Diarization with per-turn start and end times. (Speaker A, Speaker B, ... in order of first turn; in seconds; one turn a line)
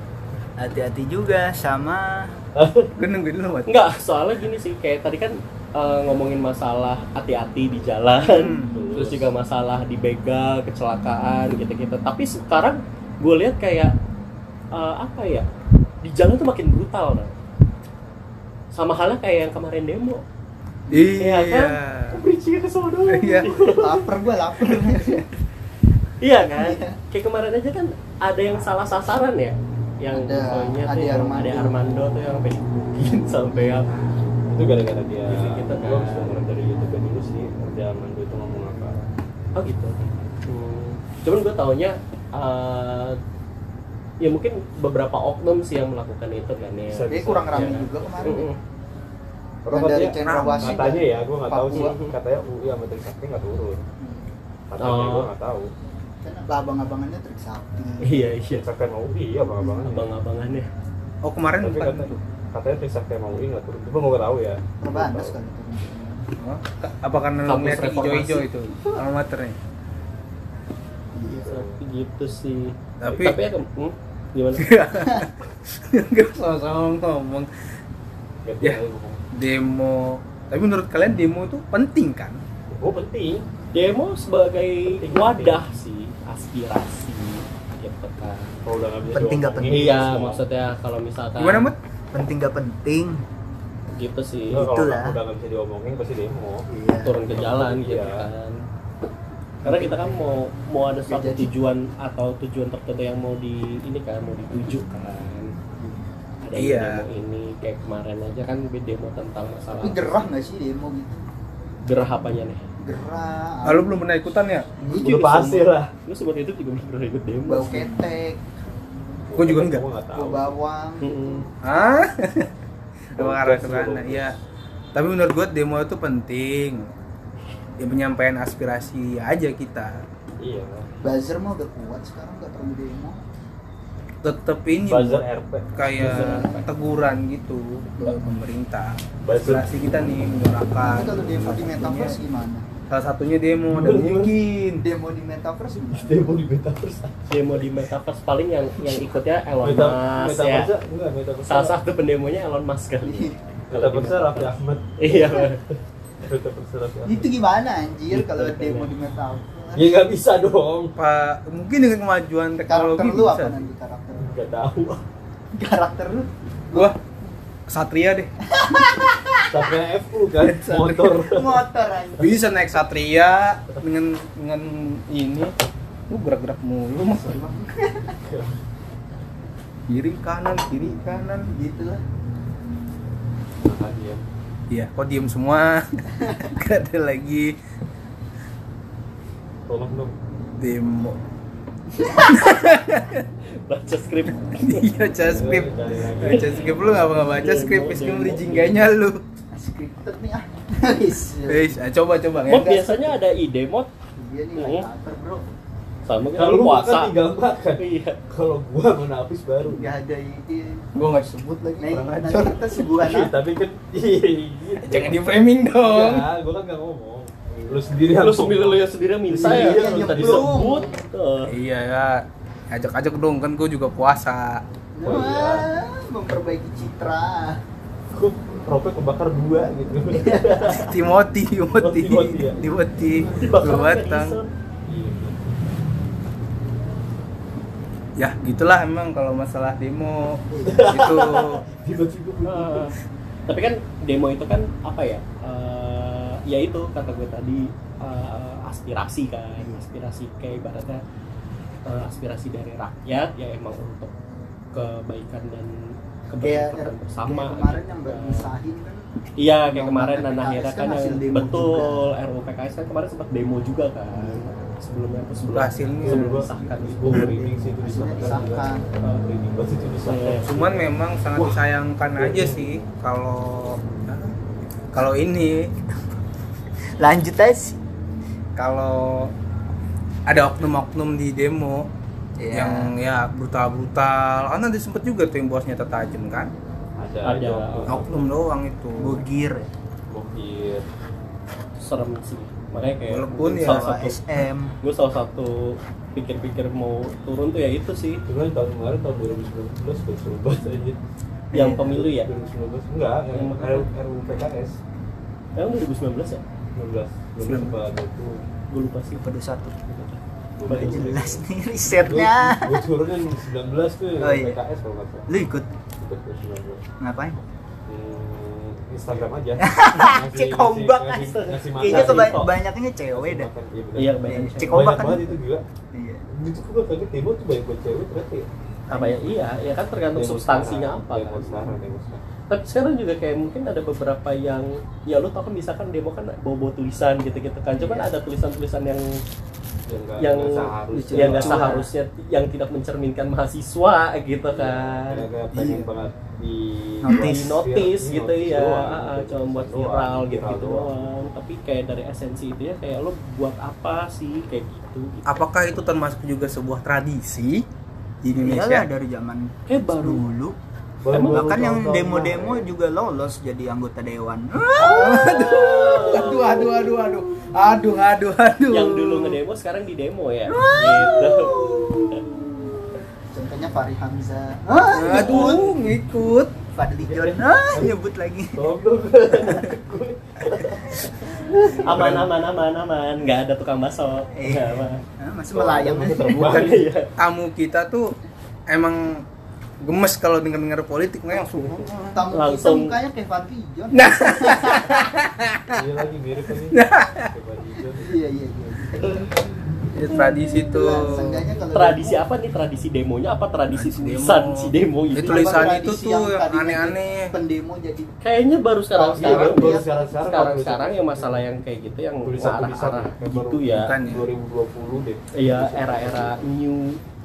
Speaker A: 0.6-2.4
Speaker B: 2.6-2.9
Speaker C: 3.0-3.7
Speaker D: 3.7-13.9
Speaker C: 8.2-8.7
Speaker B: 8.5-9.3
Speaker D: 14.7-15.5
Speaker D: 16.0-17.3
Speaker D: 18.7-20.2
Speaker C: 20.9-22.2
Speaker D: 21.2-24.1
Speaker C: 23.1-23.5
Speaker A: 23.8-25.3
Speaker C: 24.9-25.2
Speaker D: 26.2-33.9
Speaker A: 26.6-27.0
Speaker A: 30.1-31.8
Speaker B: 34.5-39.0
Speaker D: 35.3-36.4
Speaker D: 39.5-43.2
Speaker D: 44.2-48.6
Speaker B: 46.7-48.4
Speaker A: 47.1-48.5
Speaker B: 49.6-53.8
Speaker A: 49.7-51.9
Speaker C: 50.2-50.9
Speaker D: 51.7-52.1
Speaker A: 54.0-54.3
Speaker B: 54.7-55.7
Speaker D: 54.8-55.3
Speaker A: 56.2-58.3
Speaker D: 58.0-58.7
Speaker B: 58.5-60.1
Speaker A: 59.6-59.9
Speaker D: 59.9-60.7
Speaker C: 61.2-62.2
Speaker B: 61.6-65.4
Speaker A: 64.8-66.3
Speaker C: 66.4-69.6
Speaker D: 67.5-68.5
Speaker A: 68.8-69.0
Speaker A: 71.2-71.5
Speaker B: 71.3-71.8
Speaker D: 71.5-74.7
Speaker C: 73.0-73.4
Speaker C: 74.6-77.5
Speaker B: 78.5-79.2
Speaker C: 79.3-82.4
Speaker B: 82.7-83.5
Speaker D: 83.7-88.5
Speaker B: 85.0-85.6
Speaker B: 88.7-90.4
Speaker A: 89.1-90.1
Speaker D: 89.7-91.7
Speaker C: 91.4-91.8
Speaker A: 92.1-93.2
Speaker D: 94.0-94.7
Speaker B: 94.5-96.7
Speaker A: 94.6-95.2
Speaker A: 96.7-97.2
Speaker D: 97.0-98.6
Speaker B: 97.3-98.3
Speaker A: 99.6-100.2
Speaker D: 99.6-105.5
Speaker A: 101.1-101.6
Speaker D: 106.4-110.1
Speaker C: 106.5-107.0
Speaker A: 109.8-111.2
Speaker D: 111.8-112.7
Speaker A: 112.8-114.0
Speaker C: 113.7-114.7
Speaker A: 114.8-115.2
Speaker B: 115.0-115.9
Speaker D: 115.0-118.0
Speaker A: 117.5-118.4
Speaker B: 119.3-120.6
Speaker C: 119.4-119.8
Speaker A: 120.1-121.5
Speaker D: 121.0-121.5
Speaker C: 121.6-122.5
Speaker B: 123.2-124.3
Speaker C: 123.2-124.4
Speaker C: 125.0-126.9
Speaker C: 127.8-130.0
Speaker B: 130.4-130.9
Speaker A: 131.0-133.2
Speaker C: 134.2-135.2
Speaker B: 134.9-136.6
Speaker C: 135.8-142.2
Speaker A: 136.0-136.6
Speaker A: 138.0-138.3
Speaker B: 139.2-139.7
Speaker A: 140.8-142.7
Speaker C: 142.9-144.9
Speaker B: 143.7-144.3
Speaker A: 144.8-146.4
Speaker B: 145.7-147.8
Speaker D: 147.3-150.7
Speaker B: 148.8-149.1
Speaker B: 149.6-151.8
Speaker D: 151.4-155.6
Speaker A: 153.0-153.4
Speaker B: 153.7-157.3
Speaker A: 157.1-160.0
Speaker D: 158.1-158.9
Speaker B: 159.8-161.0
Speaker C: 161.0-163.7
Speaker A: 162.7-164.3
Speaker B: 164.2-165.0
Speaker A: 165.6-166.9
Speaker C: 167.7-168.3
Speaker A: 168.5-169.7
Speaker B: 169.5-171.7
Speaker A: 170.6-172.4
Speaker C: 170.6-171.1
Speaker C: 172.2-175.5
Speaker C: 176.1-177.5
Speaker A: 177.3-178.2
Speaker B: 178.2-178.6
Speaker C: 179.9-181.5
Speaker A: 181.5-182.0
Speaker B: 183.6-184.2
Speaker C: 184.7-187.6
Speaker B: 189.7-190.1
Speaker C: 190.6-191.2
Speaker A: 192.0-192.5
Speaker C: 192.2-193.2
Speaker D: 193.7-194.9
Speaker C: 194.6-199.2
Speaker B: 195.3-197.2
Speaker D: 196.2-198.8
Speaker A: 199.5-201.8
Speaker C: 201.5-203.0
Speaker D: 202.5-203.9
Speaker A: 202.7-203.1
Speaker A: 204.2-205.4
Speaker D: 204.6-204.9
Speaker D: 206.1-207.2
Speaker B: 206.3-209.9
Speaker D: 207.8-208.2
Speaker A: 209.6-211.0
Speaker C: 211.0-212.6
Speaker A: 211.8-213.3
Speaker B: 212.9-215.3
Speaker C: 214.9-216.3
Speaker B: 215.8-220.9
Speaker D: 218.1-221.6
Speaker A: 219.4-221.0
Speaker C: 221.5-224.6
Speaker A: 224.9-227.6
Speaker B: 225.0-225.7
Speaker B: 228.1-230.8
Speaker A: 230.2-231.0
Speaker C: 230.7-234.4
Speaker B: 231.8-232.7
Speaker D: 233.3-234.5
Speaker B: 234.9-235.6
Speaker C: 238.2-241.6
Speaker A: 240.5-241.1
Speaker B: 240.7-242.9
Speaker D: 242.4-242.9
Speaker D: 243.5-251.0
Speaker D: 251.8-254.1
Speaker D: 254.7-258.5
Speaker A: 256.4-259.1
Speaker D: 259.4-267.3
Speaker A: 259.7-262.1
Speaker A: 264.2-264.7
Speaker C: 265.5-266.6
Speaker B: 266.0-271.6
Speaker A: 267.1-268.9
Speaker D: 270.1-270.4
Speaker C: 270.4-274.3
Speaker B: 272.2-272.6
Speaker C: 274.9-275.7
Speaker A: 275.9-276.2
Speaker A: 277.0-277.8
Speaker C: 278.6-279.3
Speaker C: 280.3-281.9
Speaker A: 282.4-282.9
Speaker C: 282.5-286.5
Speaker B: 287.0-288.2
Speaker D: 287.2-288.0
Speaker C: 287.9-289.2
Speaker A: 289.0-289.7
Speaker B: 290.1-290.9
Speaker D: 291.8-294.2
Speaker B: 292.9-293.2
Speaker C: 293.1-293.9
Speaker A: 293.6-294.8
Speaker D: 294.8-298.2
Speaker B: 298.3-301.0
Speaker D: 301.5-302.3
Speaker A: 301.5-301.9
Speaker B: 301.7-304.8
Speaker D: 303.3-303.9
Speaker D: 305.6-306.4
Speaker B: 306.8-308.4
Speaker D: 308.7-309.2
Speaker A: 309.2-309.8
Speaker D: 309.9-311.1
Speaker B: 310.6-315.3
Speaker A: 310.7-312.8
Speaker A: 314.2-314.6
Speaker A: 315.3-315.7
Speaker B: 316.0-316.8
Speaker A: 317.0-317.4
Speaker B: 317.9-322.6
Speaker A: 319.6-323.5
Speaker D: 321.2-322.6
Speaker B: 323.1-325.6
Speaker D: 324.0-324.9
Speaker A: 324.3-325.4
Speaker A: 325.9-326.2
Speaker B: 326.3-328.5
Speaker A: 328.9-329.2
Speaker D: 328.9-331.8
Speaker B: 330.1-332.2
Speaker D: 332.5-339.2
Speaker A: 337.8-338.1
Speaker B: 339.9-341.8
Speaker D: 340.2-345.2
Speaker A: 340.9-341.9
Speaker B: 344.5-351.1
Speaker A: 347.1-347.3
Speaker D: 347.1-355.4
Speaker C: 355.3-357.6
Speaker C: 358.2-358.9
Speaker A: 358.4-360.6
Speaker D: 359.7-360.2
Speaker B: 361.0-362.7
Speaker D: 361.1-361.8
Speaker A: 361.2-366.9
Speaker C: 364.8-369.4
Speaker D: 364.9-366.7
Speaker D: 368.7-372.2
Speaker A: 370.5-372.7
Speaker A: 373.3-375.8
Speaker C: 374.9-376.5
Speaker D: 375.1-375.8
Speaker A: 376.7-378.7
Speaker B: 377.1-378.0
Speaker B: 378.5-382.3
Speaker D: 379.3-379.7
Speaker A: 380.6-382.2
Speaker D: 381.6-385.0
Speaker A: 384.4-386.3
Speaker B: 385.5-386.8
Speaker D: 386.3-387.1
Speaker C: 386.3-388.2
Speaker C: 388.7-389.2
Speaker C: 389.8-391.9
Speaker A: 391.3-395.2
Speaker D: 392.3-392.9
Speaker C: 393.9-395.8
Speaker B: 395.7-398.1
Speaker C: 396.7-397.3
Speaker A: 398.0-399.4
Speaker C: 399.9-401.5
Speaker A: 400.7-402.2
Speaker D: 401.7-405.7
Speaker C: 403.7-407.3
Speaker A: 405.2-410.3
Speaker D: 408.2-413.9
Speaker B: 409.0-411.5
Speaker B: 412.2-416.4
Speaker C: 413.8-414.3
Speaker D: 415.4-417.0